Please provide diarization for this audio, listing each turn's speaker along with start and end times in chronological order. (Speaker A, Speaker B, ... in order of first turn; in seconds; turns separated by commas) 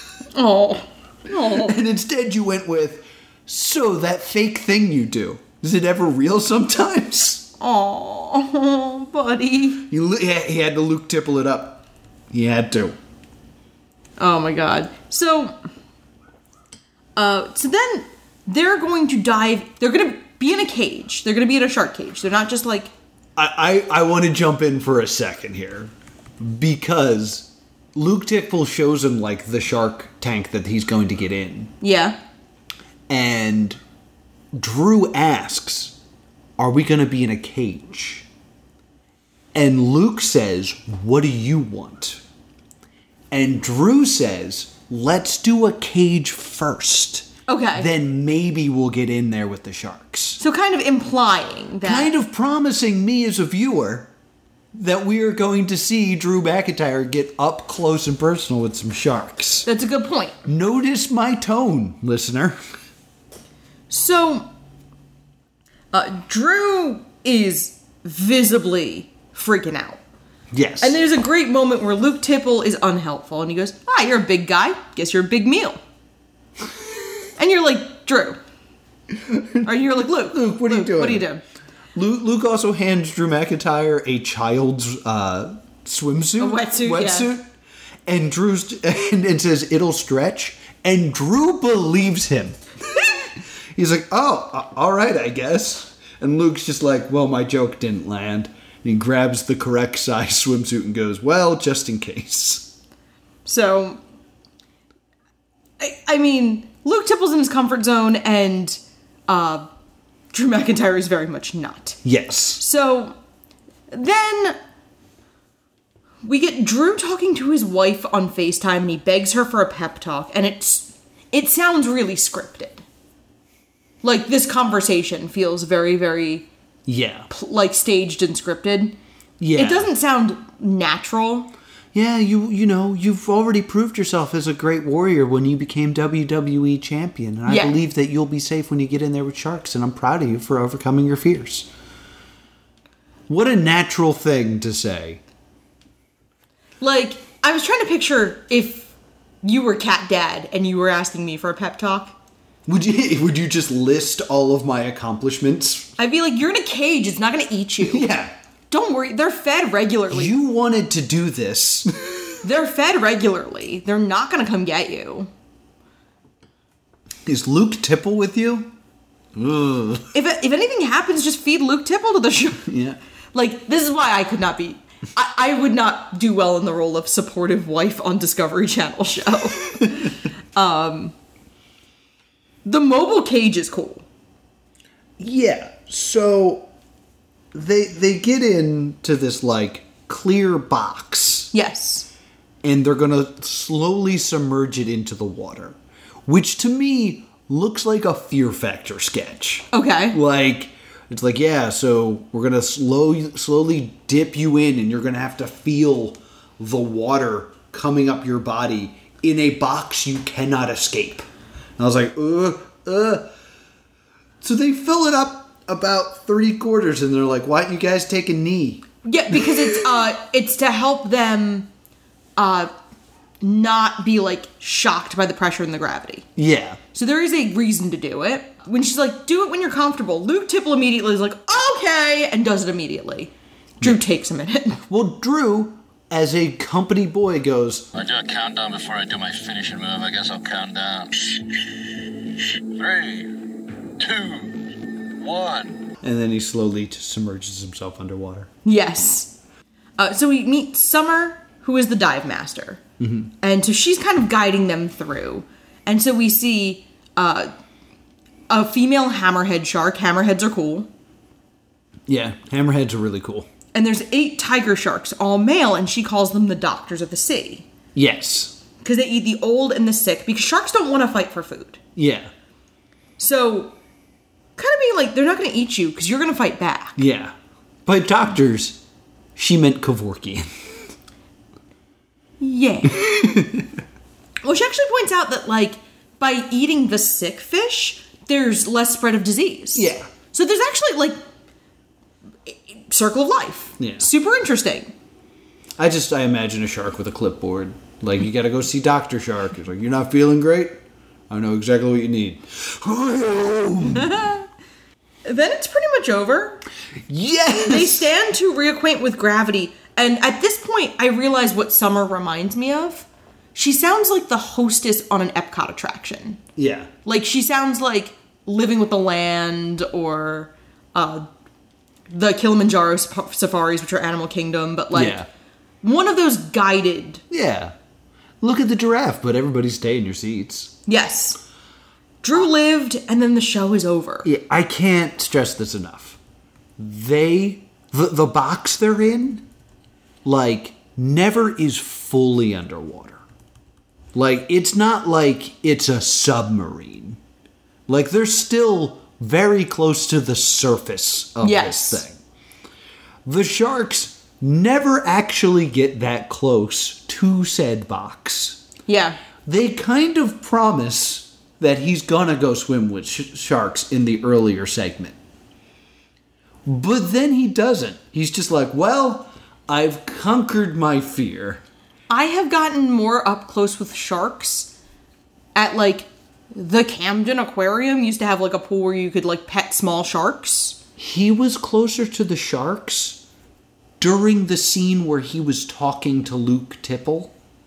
Speaker A: 0.3-1.8, Speaker B: 1.5-7.5, Speaker A: 7.6-9.8, Speaker B: 9.9-13.0, Speaker A: 14.2-15.6, Speaker A: 17.2-22.9, Speaker B: 23.4-31.7, Speaker A: 31.8-32.2, Speaker B: 33.1-33.8, Speaker B: 34.5-36.0, Speaker B: 36.6-38.2, Speaker B: 39.5-42.2, Speaker B: 43.3-50.4, Speaker A: 47.5-47.9, Speaker A: 50.4-52.1, Speaker B: 51.8-54.1, Speaker B: 54.7-59.7, Speaker A: 59.7-60.4, Speaker B: 60.5-62.6, Speaker A: 63.9-64.5, Speaker A: 65.9-70.0, Speaker B: 70.5-71.0, Speaker A: 70.8-75.8, Speaker A: 77.4-78.4, Speaker B: 79.1-81.3, Speaker A: 79.7-81.4, Speaker B: 82.0-87.5, Speaker A: 86.4-87.3, Speaker B: 88.1-93.2, Speaker B: 93.8-102.7, Speaker A: 103.5-104.0, Speaker A: 105.8-109.7, Speaker A: 110.3-112.0, Speaker B: 112.0-112.6, Speaker A: 112.6-113.2, Speaker A: 113.9-114.6, Speaker A: 116.2-122.8, Speaker A: 124.0-126.5, Speaker B: 126.9-127.3, Speaker A: 127.3-129.0, Speaker B: 129.4-129.9, Speaker A: 129.6-131.5, Speaker B: 131.9-141.7, Speaker A: 137.5-137.8, Speaker B: 143.3-145.2, Speaker A: 146.8-148.9, Speaker A: 149.4-152.2, Speaker B: 152.7-155.9, Speaker A: 156.0-158.1, Speaker B: 157.9-158.3, Speaker A: 158.7-160.3, Speaker B: 160.1-162.3, Speaker A: 162.4-165.3, Speaker B: 167.3-168.7, Speaker B: 169.4-170.1, Speaker A: 170.1-172.7, Speaker B: 172.7-173.0, Speaker A: 173.3-181.1, Speaker A: 182.7-184.0, Speaker B: 185.2-186.7, Speaker B: 187.5-191.5, Speaker A: 191.5-192.1, Speaker B: 192.6-211.3, Speaker A: 199.7-200.2, Speaker B: 211.8-213.3, Speaker B: 214.4-219.8, Speaker A: 219.1-221.7, Speaker A: 222.4-222.7, Speaker A: 223.4-226.3, Speaker B: 226.4-226.8, Speaker A: 226.9-234.8, Speaker B: 234.9-237.9, Speaker C: 237.9-241.5, Speaker C: 242.6-243.3, Speaker C: 244.0-244.7, Speaker C: 245.2-245.8, Speaker B: 246.0-248.5, Speaker A: 248.7-249.3, Speaker A: 250.0-252.8, Speaker B: 253.0-253.3, Speaker A: 253.4-257.5, Speaker A: 258.5-260.9, Speaker B: 262.1-263.5, Speaker A: 263.7-267.7, Speaker B: 267.9-268.6, Speaker A: 268.8-271.8, Speaker B: 272.0-272.3, Speaker A: 273.2-273.7, Speaker A: 274.6-277.0, Speaker B: 277.0-277.3, Speaker B: 277.9-278.8, Speaker B: 279.4-280.5, Speaker A: 282.4-283.3, Speaker B: 283.0-283.6, Speaker A: 284.4-291.2, Speaker B: 289.8-290.1, Speaker A: 292.5-294.9, Speaker B: 293.8-294.1, Speaker B: 295.8-300.8, Speaker B: 301.3-304.1, Speaker A: 304.1-304.4, Speaker A: 305.2-306.6, Speaker B: 307.1-308.1, Speaker A: 307.6-316.4, Speaker B: 316.6-316.9, Speaker A: 317.1-321.3, Speaker A: 322.1-325.2, Speaker B: 324.9-325.3, Speaker A: 325.8-327.2, Speaker B: 327.3-327.8, Speaker B: 328.4-330.7, Speaker A: 330.9-331.4, Speaker A: 332.2-334.3, Speaker B: 334.2-336.2, Speaker B: 336.8-339.4, Speaker B: 340.2-343.2, Speaker B: 344.1-347.2, Speaker B: 347.9-352.2, Speaker A: 351.4-352.0, Speaker B: 353.2-358.6, Speaker A: 358.9-359.2, Speaker B: 359.4-365.2, Speaker B: 366.7-371.6, Speaker A: 372.1-374.7, Speaker A: 375.6-380.8, Speaker B: 381.0-383.2, Speaker B: 384.0-387.3